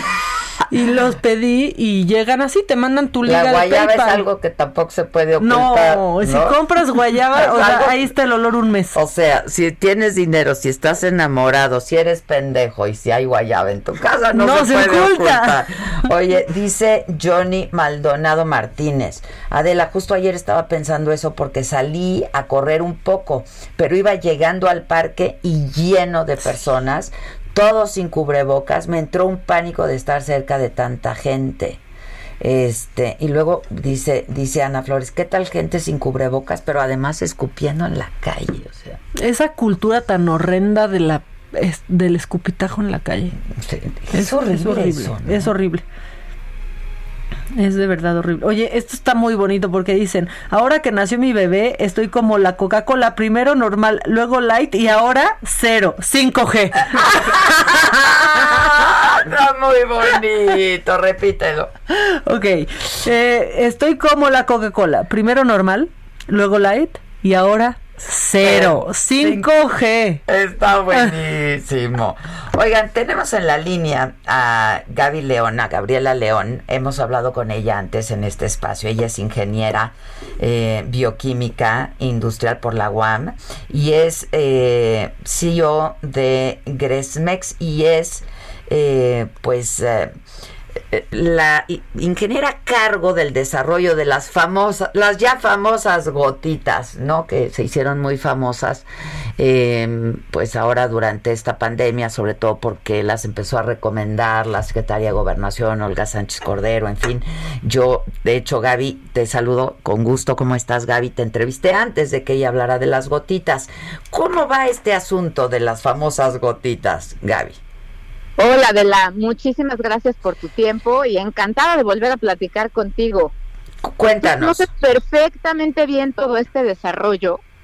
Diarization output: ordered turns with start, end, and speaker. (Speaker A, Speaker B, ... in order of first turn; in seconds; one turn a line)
Speaker A: 0.7-4.2
Speaker B: 3.2-6.6
Speaker A: 5.4-9.0
Speaker B: 7.3-8.1
Speaker B: 8.9-31.8
Speaker A: 14.3-15.6
Speaker B: 32.4-39.0
Speaker A: 39.1-43.4
Speaker B: 43.5-45.5
Speaker A: 44.1-45.8
Speaker A: 47.5-57.4
Speaker B: 57.1-61.7
Speaker A: 61.9-70.2
Speaker B: 68.4-69.5
Speaker B: 70.3-90.1
Speaker B: 90.9-98.9
Speaker B: 99.4-117.6
Speaker C: 118.4-123.3
Speaker B: 123.8-124.7
Speaker C: 124.0-127.4